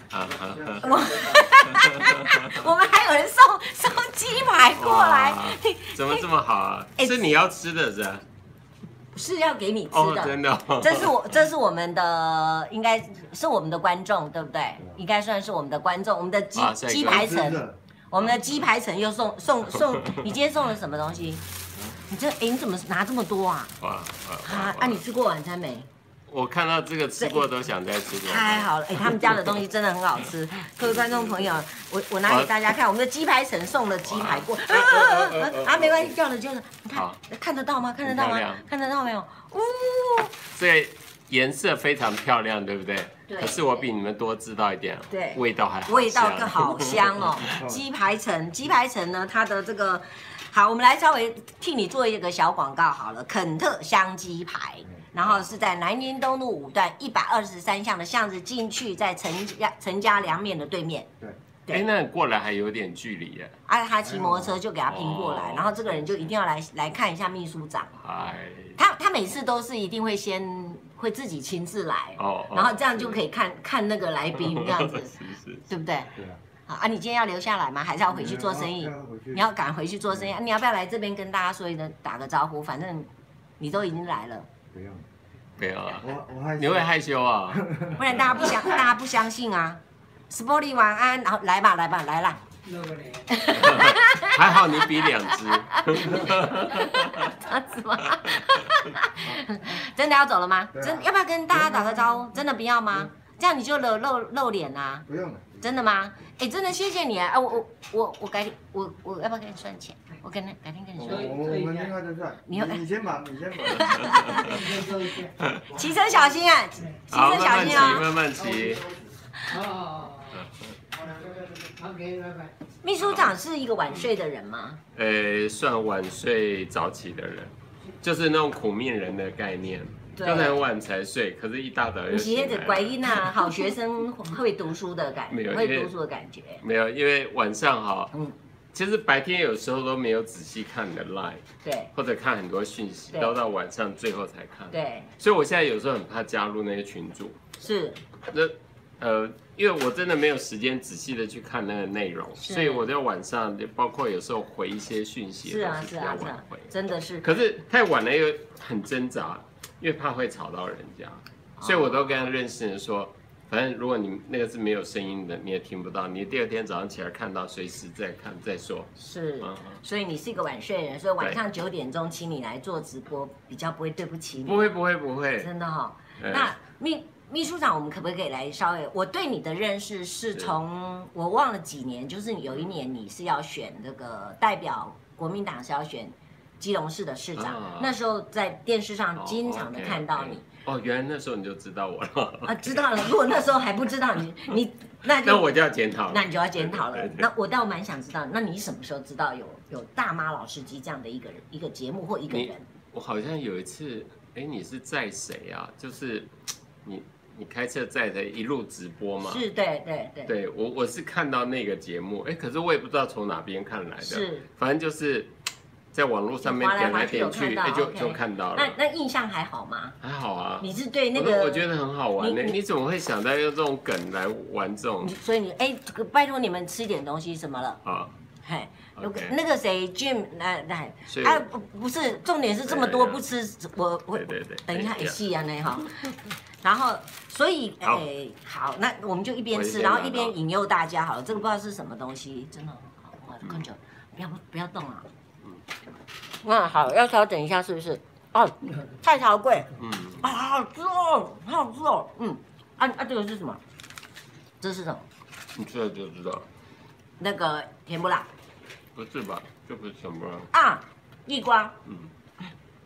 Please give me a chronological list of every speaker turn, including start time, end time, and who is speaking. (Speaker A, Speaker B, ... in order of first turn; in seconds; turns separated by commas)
Speaker A: 0.1-2.6, Speaker B: 0.4-1.4, Speaker C: 0.8-6.2, Speaker A: 4.7-8.2, Speaker C: 9.1-21.4, Speaker A: 9.9-11.1, Speaker A: 16.5-17.4, Speaker B: 17.0-17.8, Speaker C: 22.1-23.7, Speaker A: 23.8-25.0, Speaker C: 24.4-25.9, Speaker A: 26.3-29.5, Speaker C: 27.2-27.4, Speaker C: 28.2-40.4, Speaker A: 30.8-31.6, Speaker A: 32.3-32.5, Speaker A: 34.0-36.1, Speaker A: 36.9-37.2, Speaker A: 38.0-38.6, Speaker A: 40.5-47.6, Speaker C: 43.3-43.9, Speaker C: 45.1-61.1, Speaker B: 47.5-47.8, Speaker A: 55.2-55.5, Speaker A: 61.7-63.5, Speaker C: 63.7-68.0, Speaker B: 64.0-64.6, Speaker A: 64.9-66.3, Speaker A: 68.0-68.8, Speaker C: 68.8-75.1, Speaker A: 72.2-73.2, Speaker A: 74.3-75.7, Speaker C: 75.7-76.1, Speaker B: 76.2-76.4, Speaker C: 76.7-83.1, Speaker B: 78.1-79.4, Speaker C: 83.6-84.5, Speaker B: 84.7-85.0, Speaker A: 85.6-88.6, Speaker B: 86.0-86.9, Speaker B: 87.5-88.0, Speaker C: 88.0-92.4, Speaker D: 92.6-93.3, Speaker C: 93.3-105.0, Speaker A: 93.5-97.3, Speaker B: 100.7-102.0, Speaker B: 105.1-105.7, Speaker C: 105.6-111.6, Speaker B: 111.0-114.9, Speaker D: 111.2-112.0, Speaker C: 112.5-112.9, Speaker C: 113.6-114.7, Speaker A: 114.0-114.3, Speaker D: 114.3-115.3, Speaker A: 115.4-115.7, Speaker C: 115.7-118.1, Speaker B: 115.8-116.2, Speaker A: 117.1-118.9, Speaker D: 119.5-120.4, Speaker A: 120.3-120.7, Speaker D: 121.0-122.5, Speaker C: 122.8-124.8, Speaker A: 123.0-123.4, Speaker A: 124.9-133.6, Speaker C: 130.2-130.6, Speaker C: 132.1-136.6, Speaker A: 135.3-135.9, Speaker A: 136.6-138.1, Speaker A: 138.7-147.4, Speaker C: 141.6-141.9, Speaker C: 144.7-145.1, Speaker C: 147.6-148.0, Speaker A: 148.3-169.8, Speaker C: 152.4-152.9, Speaker C: 155.4-157.3, Speaker C: 161.6-162.0, Speaker C: 169.0-174.7, Speaker A: 174.4-175.5, Speaker C: 175.4-190.4, Speaker A: 176.2-176.5, Speaker A: 187.3-187.9, Speaker A: 189.2-193.0, Speaker C: 192.4-195.5, Speaker A: 195.1-197.3, Speaker C: 196.1-202.7, Speaker A: 202.3-209.4, Speaker C: 209.2-210.3, Speaker A: 210.2-215.3, Speaker C: 214.0-214.5, Speaker A: 215.9-218.8, Speaker C: 216.4-220.0, Speaker A: 220.0-225.1, Speaker C: 220.6-221.7, Speaker C: 222.2-222.6, Speaker C: 225.0-227.8, Speaker A: 227.8-228.1, Speaker C: 228.4-245.0, Speaker A: 229.0-229.4, Speaker A: 231.1-231.4, Speaker A: 232.6-233.3, Speaker A: 234.1-235.2, Speaker A: 239.5-240.3, Speaker A: 243.4-243.7, Speaker C: 246.4-253.6, Speaker A: 249.8-250.3, Speaker C: 254.6-255.0, Speaker A: 255.5-256.4, Speaker C: 257.2-258.3, Speaker A: 258.9-260.5, Speaker C: 260.5-261.8